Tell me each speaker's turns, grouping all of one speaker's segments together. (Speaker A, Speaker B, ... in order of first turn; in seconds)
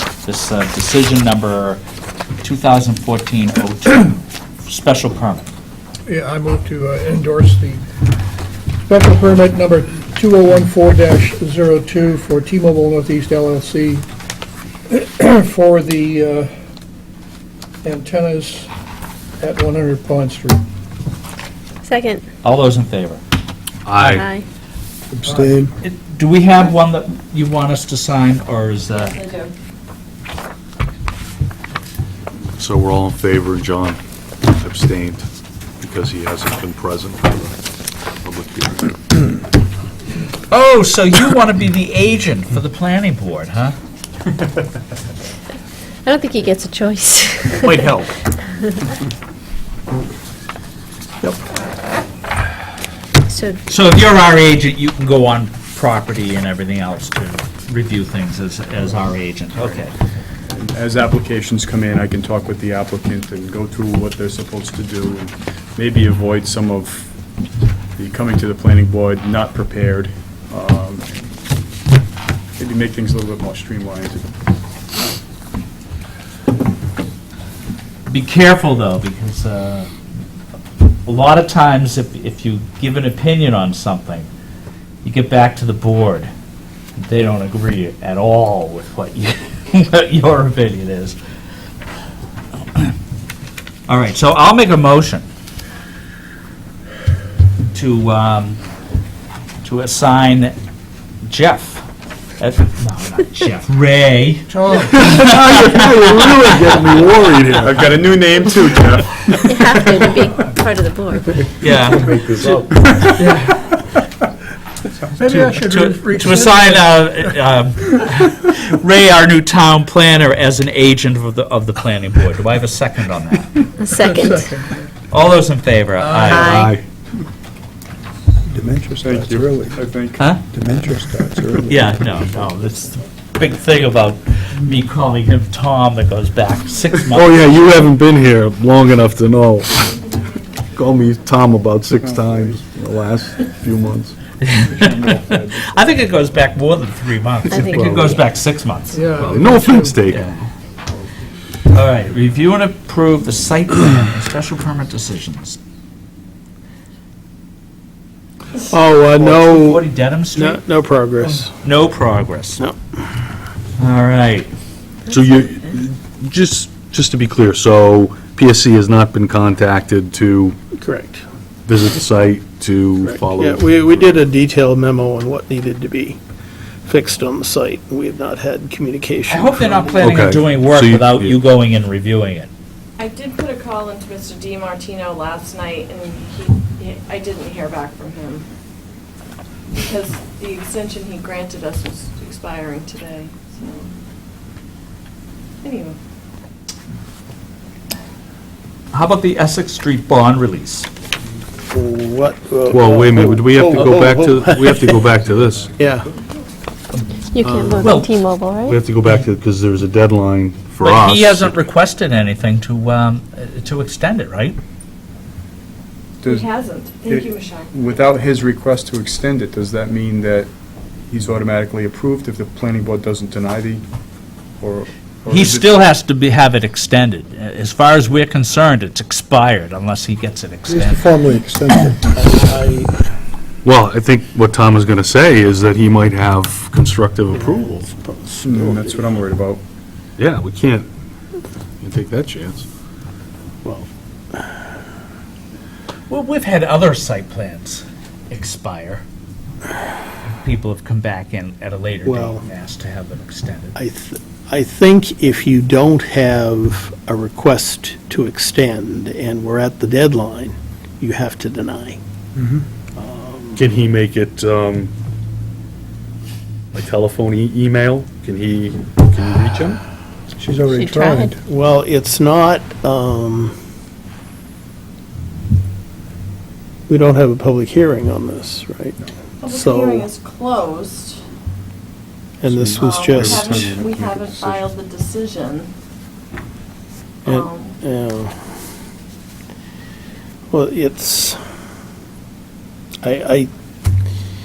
Speaker A: 0.2-1.8, 2.4-5.5, 22.4-23.2, 25.8-29.2, 40.5-43.7, 53.7-59.9, 78.1-79.9, 81.0-84.3, 85.0-86.3, 87.0-91.2, 93.9-95.2, 97.7-98.6, 99.6-100.5, 101.2-101.8, 102.4-106.9, 111.6-112.2, 115.4-123.7, 125.1-126.6, 130.2-130.4, 131.6-137.7, 144.4-149.0, 150.1-150.3, 151.7-155.6, 159.1-160.6, 161.6-162.6, 163.8-164.5, 179.3-182.5, 198.9-200.9, 207.7-208.2, 210.8-214.6, 225.3-231.9, 246.1-249.0, 250.3-253.8
Speaker B: 6.1-7.8, 8.9-14.0, 14.9-16.5, 17.8-18.7, 19.4-20.6, 25.2-25.5, 104.5-105.0, 113.2-113.6, 115.2-117.3, 124.0-124.9, 126.0-126.4, 148.9-150.0
Speaker C: 21.9-22.2, 24.0-24.4, 46.0-47.9, 53.3-53.6, 109.5-111.4, 123.8-124.5, 126.3-126.7, 147.5-148.2, 207.3-208.8, 270.6-271.3
Speaker D: 23.8-24.3, 32.6-35.2, 35.8-37.6, 38.2-39.0, 104.9-107.8, 111.8-112.8, 126.3-126.8, 137.1-140.0, 140.7-144.2, 147.7-148.2, 149.2-150.5, 165.1-170.6, 171.7-174.2, 180.0-181.4, 202.7-205.8, 207.4-208.0, 208.7-211.5, 233.6-237.9, 240.2-240.9, 241.8-242.7, 263.6-264.9, 266.7-269.8
Speaker E: 25.1-25.7, 128.5-129.8, 130.5-131.8, 230.7-232.2, 270.4-271.3
Speaker F: 29.0-29.5, 183.0-188.4, 189.7-193.9, 195.6-196.0, 216.2-218.0, 279.4-281.2, 282.7-285.7, 287.2-287.8
Speaker G: 59.6-59.8, 60.5-67.1, 68.0-71.2, 72.6-74.3, 107.5-110.1, 129.0-130.4, 142.0-142.6, 144.5-146.0, 216.2-216.5, 217.1-220.5, 221.1-223.8, 224.6-225.7, 238.4-239.6, 282.5-284.6
Speaker H: 158.6-161.6, 162.6-163.0, 170.8-171.2, 173.0-176.2, 176.8-180.1, 201.7-205.1, 205.7-206.1, 232.1-232.9, 237.3-239.2, 243.6-244.6, 252.0-252.4, 253.8-262.0, 262.9-263.6, 271.3-273.5, 276.9-280.1, 282.4-283.9, 287.2-288.3, 290.5-291.4, 293.0-293.5